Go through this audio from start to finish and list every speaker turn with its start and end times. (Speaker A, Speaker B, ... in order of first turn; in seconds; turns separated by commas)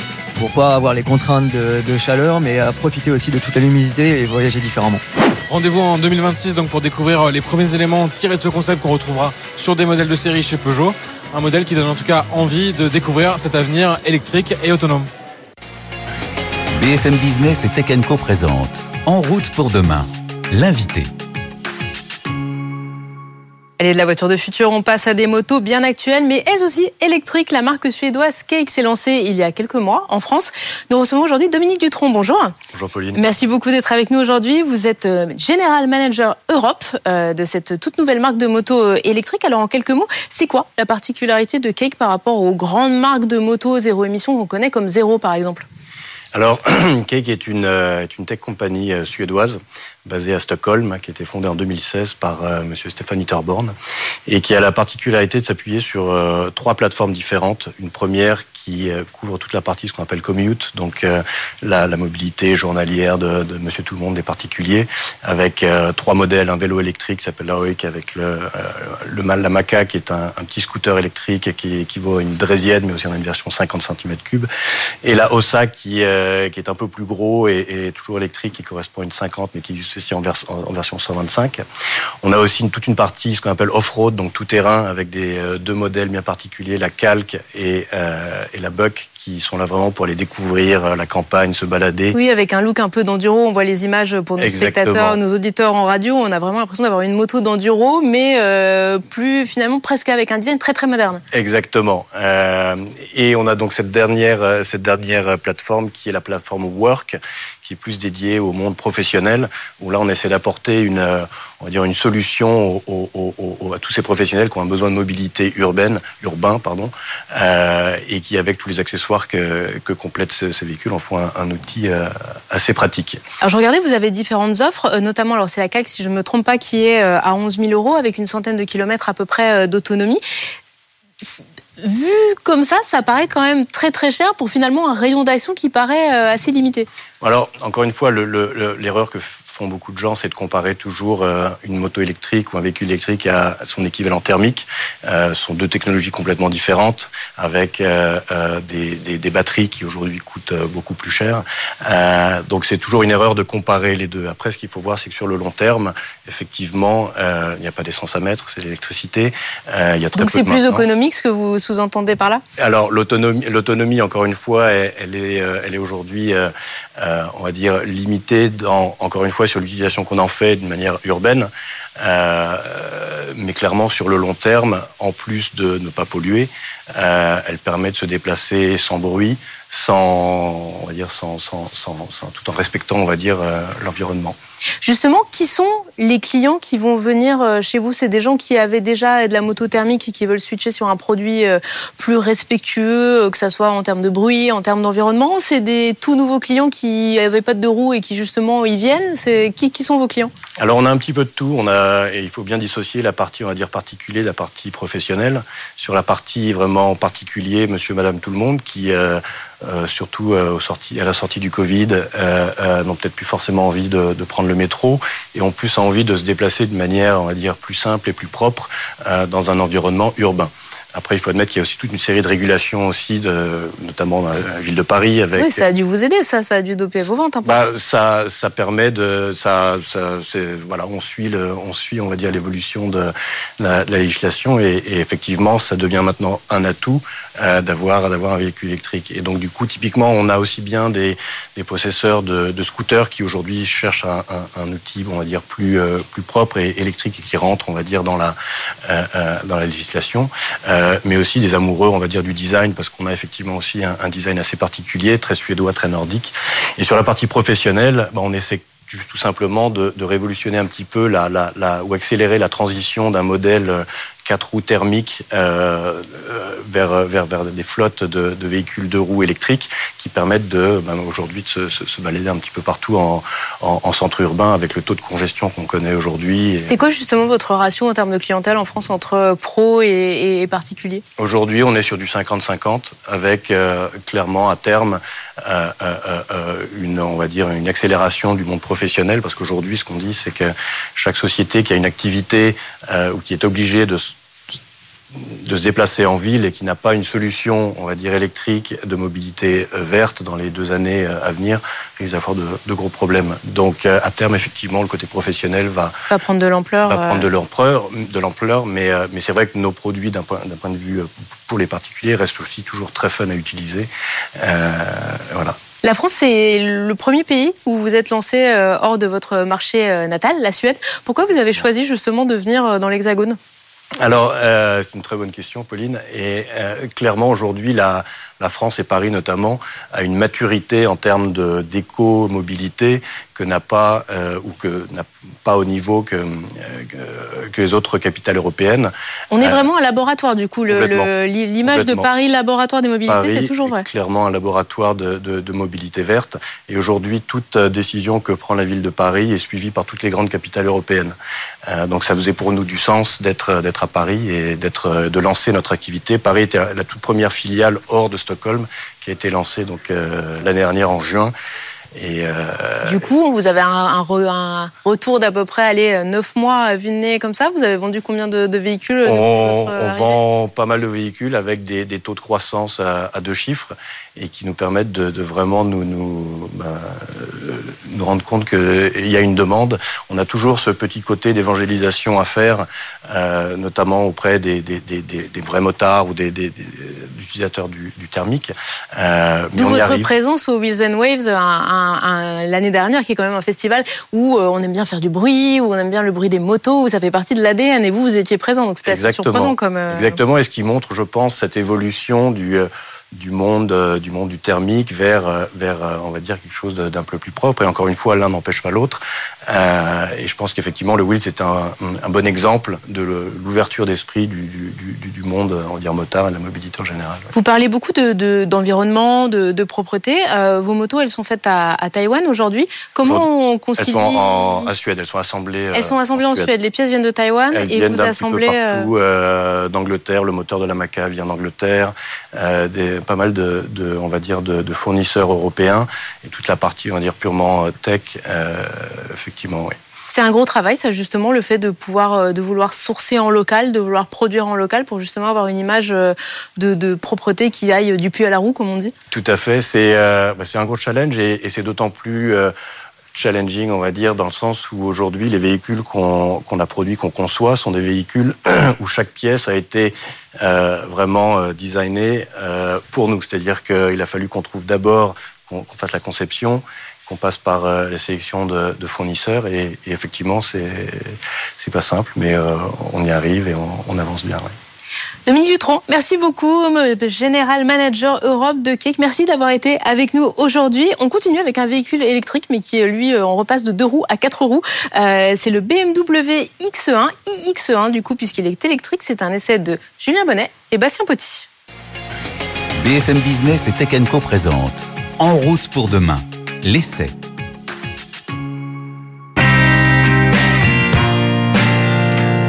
Speaker A: 0.3-5.0, Speaker B: 5.5-15.1, Speaker C: 16.7-21.1, Speaker D: 23.8-32.5, Speaker E: 32.7-33.2, Speaker D: 33.1-45.6, Speaker E: 46.3-53.7, Speaker E: 54.3-74.5, Speaker E: 75.0-81.6, Speaker E: 82.2-92.2, Speaker D: 92.1-101.2, Speaker E: 94.4-95.2, Speaker E: 101.3-123.2, Speaker D: 123.4-130.2, Speaker D: 131.2-136.9, Speaker E: 137.2-160.8, Speaker D: 160.1-162.4, Speaker E: 162.6-184.4, Speaker D: 184.8-200.3, Speaker E: 200.6-225.6, Speaker D: 225.3-227.7, Speaker E: 227.4-276.8, Speaker D: 276.6-281.0, Speaker E: 281.2-294.5, Speaker E: 295.1-306.0, Speaker D: 306.1-307.2, Speaker E: 306.9-315.6, Speaker D: 315.8-323.4, Speaker E: 324.0-339.6, Speaker D: 339.3-343.8, Speaker E: 340.7-341.1, Speaker E: 341.6-342.1, Speaker E: 343.1-351.1, Speaker E: 351.7-361.3, Speaker E: 361.9-363.0, Speaker D: 362.9-370.2, Speaker E: 369.0-390.1, Speaker D: 389.6-400.2, Speaker E: 398.9-417.3, Speaker D: 417.3-424.7, Speaker E: 423.8-426.5, Speaker D: 425.7-428.9, Speaker E: 427.5-439.7, Speaker D: 440.1-448.9, Speaker E: 449.1-452.5, Speaker E: 453.1-474.5, Speaker D: 475.3-491.5, Speaker C: 492.7-497.1